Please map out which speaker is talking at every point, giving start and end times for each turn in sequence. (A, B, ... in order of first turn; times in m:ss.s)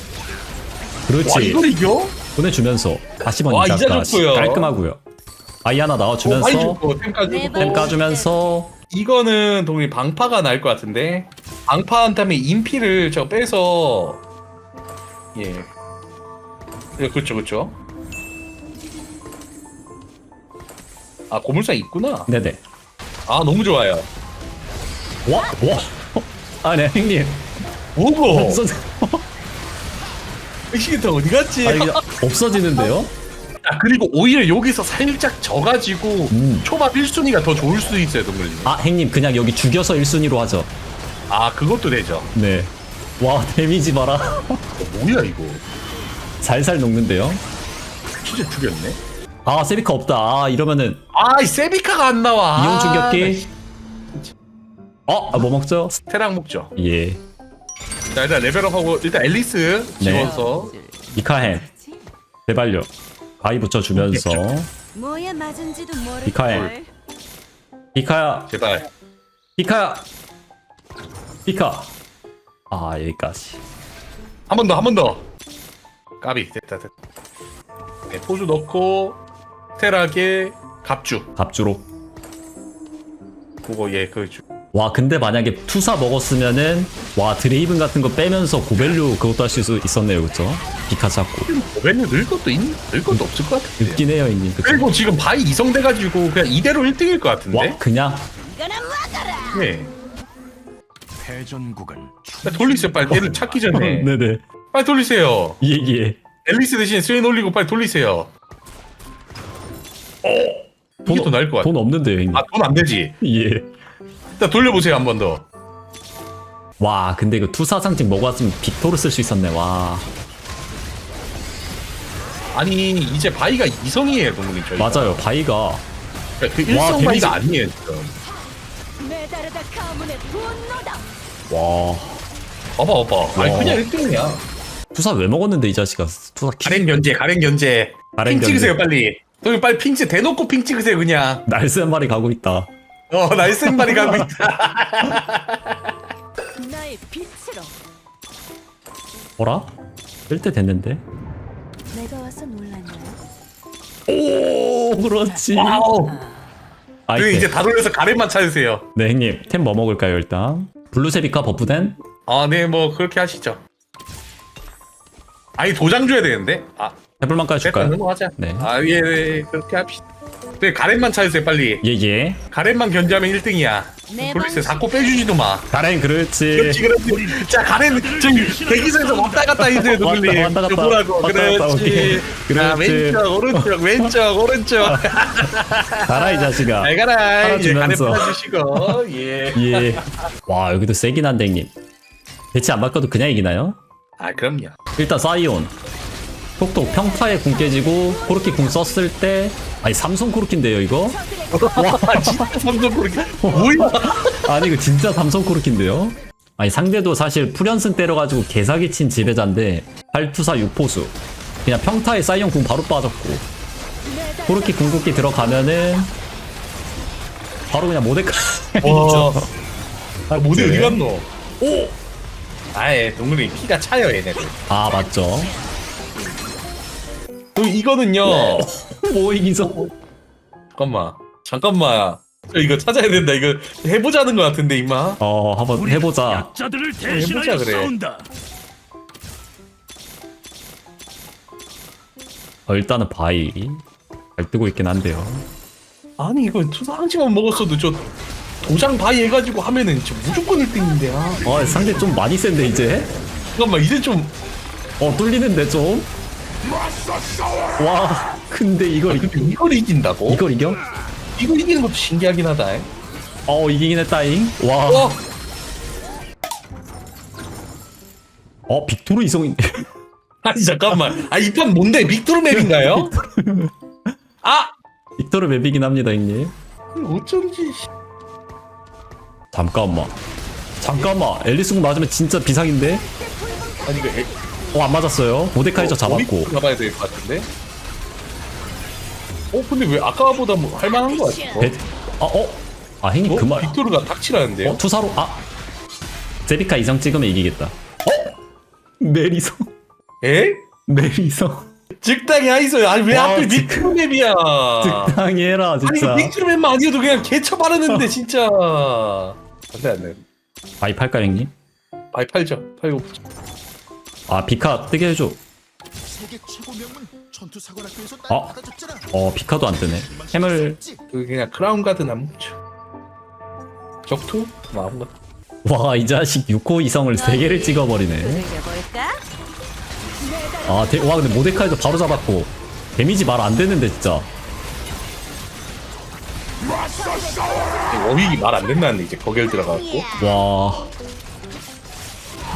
0:01.1-0:01.6 A
0:01.2-0:02.2 B
0:02.3-0:05.0 A
0:03.5-0:04.7 B
0:05.6-0:06.8 A
0:06.2-0:08.0 B
0:07.2-0:08.3 C
0:07.5-0:08.7 A
0:08.9-0:14.2 B
0:15.3-0:15.7 B
0:17.0-0:17.8 B
0:21.3-0:22.3 B
0:22.3-0:22.6 A
0:23.3-0:24.0 B
0:25.2-0:27.5 A
0:28.0-0:28.6 B
0:28.3-0:29.2 A
0:30.7-0:32.0 B
0:31.6-0:33.1 A
0:33.6-0:38.7 B
0:36.3-0:36.7 A
0:38.6-0:40.7 A
0:41.3-0:42.3 B
0:42.3-0:44.6 A
0:44.8-0:45.6 B
0:46.4-0:47.4 A
0:48.2-0:49.0 B
0:49.4-0:51.0 A
0:51.1-0:53.5 B
0:52.6-0:53.5 A
0:55.1-0:56.0 A
0:56.1-0:56.7 B
0:56.8-0:57.2 A
0:58.1-1:00.7 B
1:00.0-1:00.3 A
1:00.2-1:02.0 C
1:01.1-1:01.6 A
1:02.5-1:02.9 A
1:03.4-1:04.7 A
1:03.9-1:04.4 B
1:04.9-1:06.9 C
1:06.2-1:06.7 A
1:07.9-1:08.5 A
1:08.5-1:08.9 B
1:09.6-1:10.1 A
1:11.4-1:11.9 A
1:12.7-1:13.6 A
1:14.5-1:15.2 B
1:16.2-1:16.9 B
1:18.1-1:19.2 B
1:19.8-1:21.3 B
1:21.4-1:21.8 A
1:23.6-1:24.4 B
1:24.7-1:31.5 A
1:31.5-1:34.0 B
1:33.8-1:34.9 A
1:34.6-1:37.8 B
1:37.5-1:38.3 A
1:38.5-1:39.6 C
1:39.5-1:39.9 B
1:41.2-1:42.4 D
1:42.4-1:44.1 B
1:43.1-1:44.4 A
1:44.7-1:45.6 B
1:45.6-1:46.2 A
1:46.4-1:48.3 B
1:50.4-1:51.7 B
1:51.0-1:52.5 A
1:52.3-1:53.2 B
1:53.2-1:53.7 A
1:54.4-1:55.4 B
1:56.8-2:00.0 A
2:02.5-2:05.2 B
2:04.8-2:05.8 A
2:06.4-2:08.1 B
2:06.7-2:07.4 A
2:09.0-2:11.0 C
2:11.5-2:12.2 A
2:12.8-2:14.4 B
2:13.4-2:13.8 A
2:14.9-2:16.9 A
2:16.6-2:21.4 B
2:18.1-2:18.8 A
2:21.4-2:22.7 A
2:23.1-2:25.7 B
2:23.6-2:24.3 A
2:26.6-2:27.7 C
2:29.4-2:29.7 A
2:30.3-2:31.0 A
2:31.9-2:33.2 C
2:34.1-2:35.8 A
2:35.5-2:36.2 B
2:36.0-2:36.4 C
2:37.1-2:37.5 A
2:37.2-2:38.8 B
2:39.0-2:42.0 A
2:42.2-2:43.6 B
2:45.6-2:47.0 B
2:47.2-2:48.7 A
2:47.6-2:50.0 B
2:50.6-2:51.8 B
2:51.8-2:52.4 A
2:52.5-2:55.7 B
2:54.1-2:55.2 C
2:55.7-2:56.8 A
2:56.5-3:10.2 B
2:59.8-3:03.7 A
3:06.0-3:09.0 A
3:09.5-3:11.7 A
3:12.5-3:13.8 A
3:14.2-3:14.8 B
3:15.0-3:15.7 A
3:16.6-3:21.2 A
3:17.3-3:18.5 C
3:21.1-3:21.8 C
3:21.5-3:24.4 B
3:21.8-3:22.4 A
3:23.4-3:33.5 A
3:34.0-3:34.9 C
3:34.4-3:36.1 A
3:37.7-3:39.5 A
3:38.8-3:39.5 B
3:40.3-3:41.0 A
3:40.3-3:41.3 B
3:41.6-3:41.9 A
3:42.7-3:44.5 B
3:44.7-3:45.5 A
3:47.5-3:48.7 B
3:48.2-3:49.9 A
3:50.8-3:55.2 B
3:55.2-3:56.5 A
3:56.4-3:58.2 D
3:57.0-3:57.9 B
4:02.7-4:03.8 A
4:04.4-4:05.5 A
4:06.2-4:08.1 B
4:08.6-4:11.6 B
4:11.4-4:13.1 A
4:13.5-4:14.4 B
4:15.0-4:16.1 A
4:17.8-4:19.5 A
4:19.1-4:20.4 B
4:20.3-4:20.8 A
4:21.4-4:22.9 B
4:23.5-4:25.2 A
4:24.9-4:25.2 B
4:28.7-4:29.9 A
4:30.4-4:33.1 B
4:32.5-4:34.1 A
4:34.4-4:34.7 B
4:35.2-4:36.5 A
4:36.9-4:37.9 B
4:39.5-4:40.1 A
4:40.8-4:43.0 A
4:43.4-4:43.8 C
4:43.8-4:44.3 B
4:44.7-4:46.5 A
4:45.8-4:47.5 B
4:49.5-4:51.7 B
4:51.6-4:53.8 A
4:53.2-4:54.8 B
4:54.6-4:55.4 A
4:56.4-4:58.3 A
4:59.0-4:59.7 A
5:00.2-5:00.6 B
5:00.9-5:01.7 A
5:02.0-5:05.2 B
5:03.1-5:04.0 A
5:04.8-5:06.3 A
5:05.8-5:10.2 B
5:07.9-5:08.1 A
5:10.8-5:11.5 A
5:12.1-5:13.2 B
5:14.3-5:15.4 A
5:16.2-5:19.0 E
5:18.3-5:18.6 A
5:19.1-5:20.8 A
5:21.1-5:22.6 B
5:24.0-5:25.1 B
5:25.6-5:28.5 A
5:27.2-5:29.2 C
5:30.2-5:31.0 C
5:30.7-5:34.3 A
5:36.9-5:37.7 C
5:37.9-5:40.1 B
5:40.1-5:40.9 A